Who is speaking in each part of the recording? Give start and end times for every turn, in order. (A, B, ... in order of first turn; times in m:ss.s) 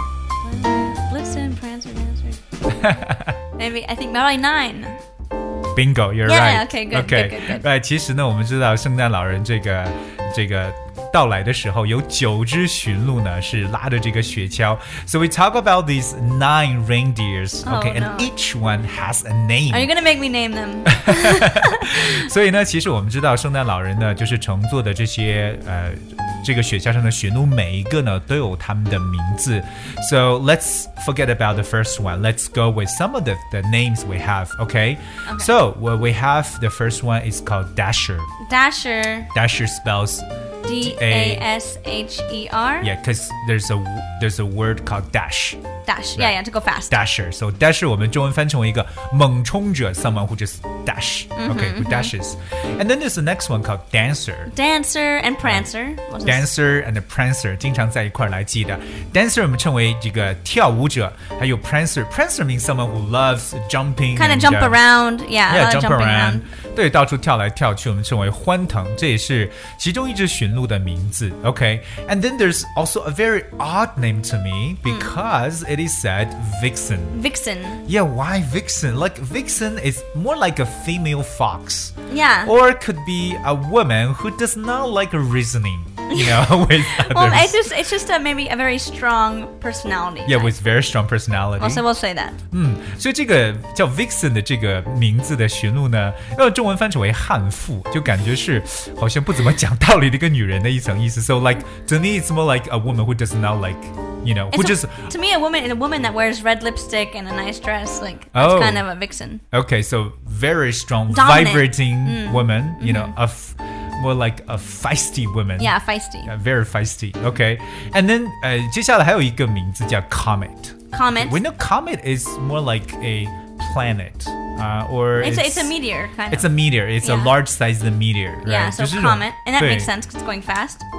0:00.4-0:02.4 A
0:02.7-0:03.4 B
0:03.6-0:05.0 A
0:05.8-0:19.9 B
0:06.2-0:07.6 A
0:17.6-0:18.3 A
0:19.7-0:22.1 A
0:20.8-0:38.3 B
0:35.2-0:35.5 A
0:38.4-0:39.3 A
0:39.3-0:41.4 B
0:40.6-0:42.9 A
0:42.8-0:45.6 B
0:45.8-0:47.0 A
0:46.2-0:54.5 B
0:51.4-0:52.1 A
0:54.5-0:56.5 A
0:55.4-0:55.7 B
0:56.2-1:04.8 B
1:04.1-1:06.5 A
1:05.5-1:17.2 B
1:14.8-1:15.1 A
1:17.1-1:17.8 A
1:17.9-1:27.6 B
1:22.1-1:22.5 A
1:26.1-1:30.6 A
1:30.2-1:31.8 B
1:31.6-1:32.4 A
1:32.5-1:45.1 B
1:44.5-1:49.4 A
1:48.3-1:48.9 B
1:49.5-2:05.8 B
1:51.1-1:53.2 A
1:55.6-1:56.3 A
2:00.9-2:01.4 A
2:05.2-2:07.4 A
2:06.3-2:09.9 B
2:08.4-2:10.8 A